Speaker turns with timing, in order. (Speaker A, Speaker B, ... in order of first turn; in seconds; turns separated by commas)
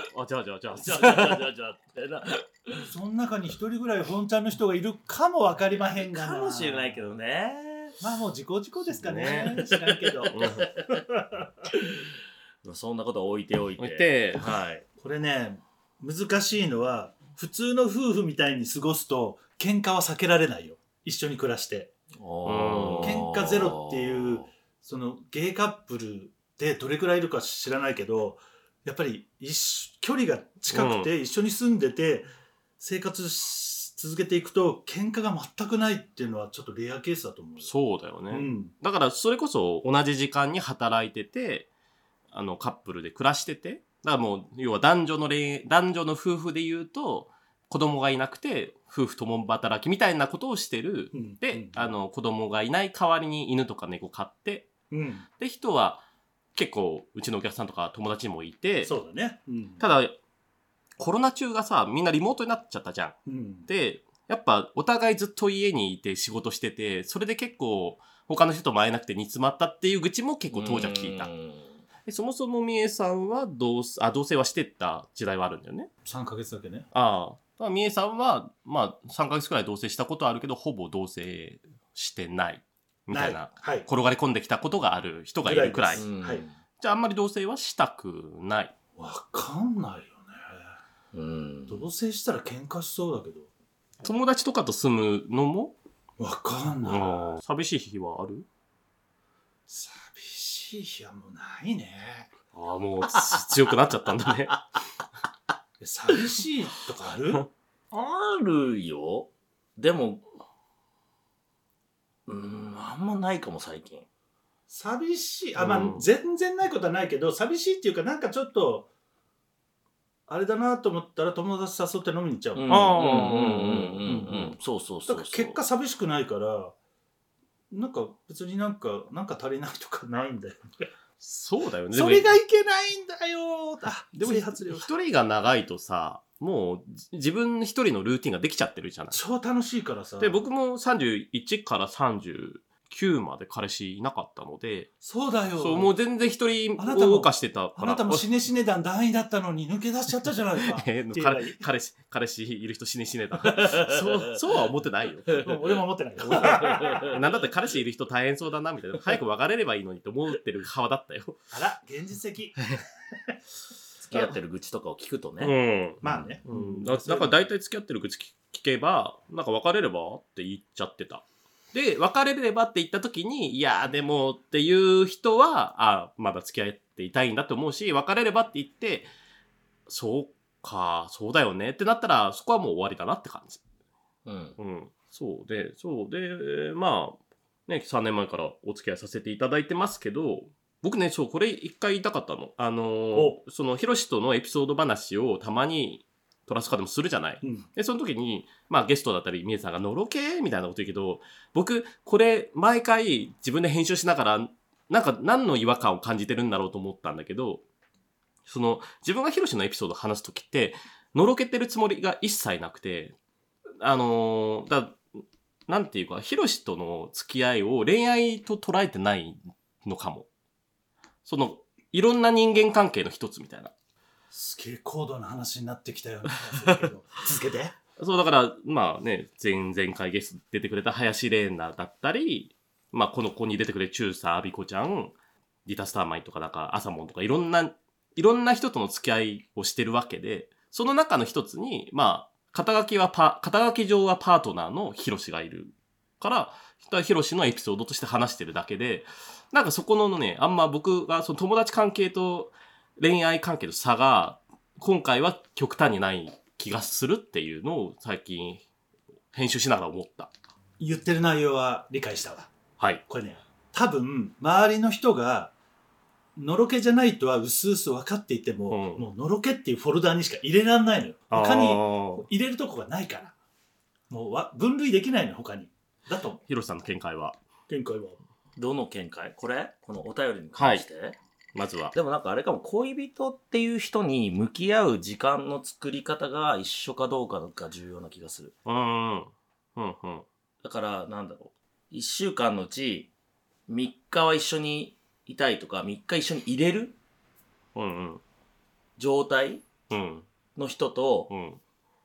Speaker A: 0.1-1.5, Speaker B: 0.7-2.9, Speaker C: 2.9-7.1, Speaker B: 6.0-8.0, Speaker C: 8.0-11.4, Speaker A: 8.9-9.7, Speaker B: 9.6-11.0, Speaker A: 10.3-10.7, Speaker B: 12.6-14.8, Speaker A: 13.8-14.5, Speaker C: 15.0-21.9, Speaker B: 22.1-24.5, Speaker A: 22.5-23.2, Speaker C: 23.0-37.7, Speaker A: 30.7-31.1, Speaker A: 37.6-41.7, Speaker C: 38.3-38.7, Speaker A: 42.3-54.7, Speaker C: 51.1-51.8, Speaker C: 54.9-55.3, Speaker A: 55.4-56.0, Speaker A: 56.5-58.9, Speaker C: 58.8-59.8, Speaker A: 59.8-60.2, Speaker A: 61.0-63.1, Speaker C: 63.3-63.7, Speaker A: 63.7-71.3, Speaker B: 70.5-71.8, Speaker A: 72.1-75.9, Speaker C: 76.0-76.9, Speaker A: 76.9-86.1, Speaker C: 83.1-83.9, Speaker C: 85.4-86.4, Speaker B: 86.0-86.6, Speaker A: 86.8-88.7, Speaker C: 89.0-90.8, Speaker B: 91.1-91.9, Speaker C: 91.7-93.5, Speaker A: 94.0-95.8, Speaker C: 96.2-97.2, Speaker A: 96.9-98.5, Speaker C: 99.7-102.3, Speaker A: 102.5-104.6, Speaker B: 103.1-103.5, Speaker B: 104.3-104.6, Speaker C: 105.8-107.5, Speaker B: 107.9-110.2, Speaker B: 112.3-114.1, Speaker C: 114.7-118.9, Speaker A: 115.6-116.1, Speaker C: 120.3-123.3, Speaker B: 122.5-125.6, Speaker A: 122.7-124.0, Speaker C: 124.0-124.5, Speaker C: 125.1-126.8, Speaker C: 127.7-130.6, Speaker A: 131.2-132.4, Speaker C: 131.9-134.9, Speaker A: 134.2-139.2, Speaker C: 139.1-140.4, Speaker A: 140.2-144.9, Speaker C: 145.0-145.9, Speaker A: 145.6-148.3, Speaker C: 146.8-151.6, Speaker A: 150.7-155.5, Speaker B: 153.5-154.3, Speaker C: 155.4-157.1, Speaker B: 156.2-157.2, Speaker A: 157.0-161.4, Speaker C: 161.5-163.4, Speaker B: 164.1-165.6, Speaker A: 165.4-179.1, Speaker C: 166.0-167.4, Speaker A: 179.9-183.6, Speaker B: 184.3-184.6, Speaker A: 184.6-207.6, Speaker C: 193.1-193.4, Speaker A: 208.5-213.2, Speaker A: 213.8-215.0, Speaker A: 215.7-220.3, Speaker A: 221.3-223.7, Speaker C: 224.3-227.8, Speaker A: 228.0-235.2, Speaker A: 235.7-258.6, Speaker A: 259.3-260.3, Speaker C: 260.8-262.5, Speaker C: 263.1-265.5, Speaker C: 266.4-273.4, Speaker A: 268.7-269.1, Speaker A: 271.3-272.3, Speaker C: 274.1-276.4, Speaker A: 276.5-277.4, Speaker C: 277.7-278.2, Speaker B: 278.6-281.2, Speaker A: 280.6-280.9, Speaker A: 281.6-281.9, Speaker B: 281.9-288.5, Speaker A: 288.7-290.3, Speaker B: 290.6-293.1, Speaker B: 293.7-297.0, Speaker A: 297.8-298.2, Speaker B: 299.0-299.7, Speaker A: 299.9-300.3, Speaker B: 300.6-301.3, Speaker A: 301.3-301.6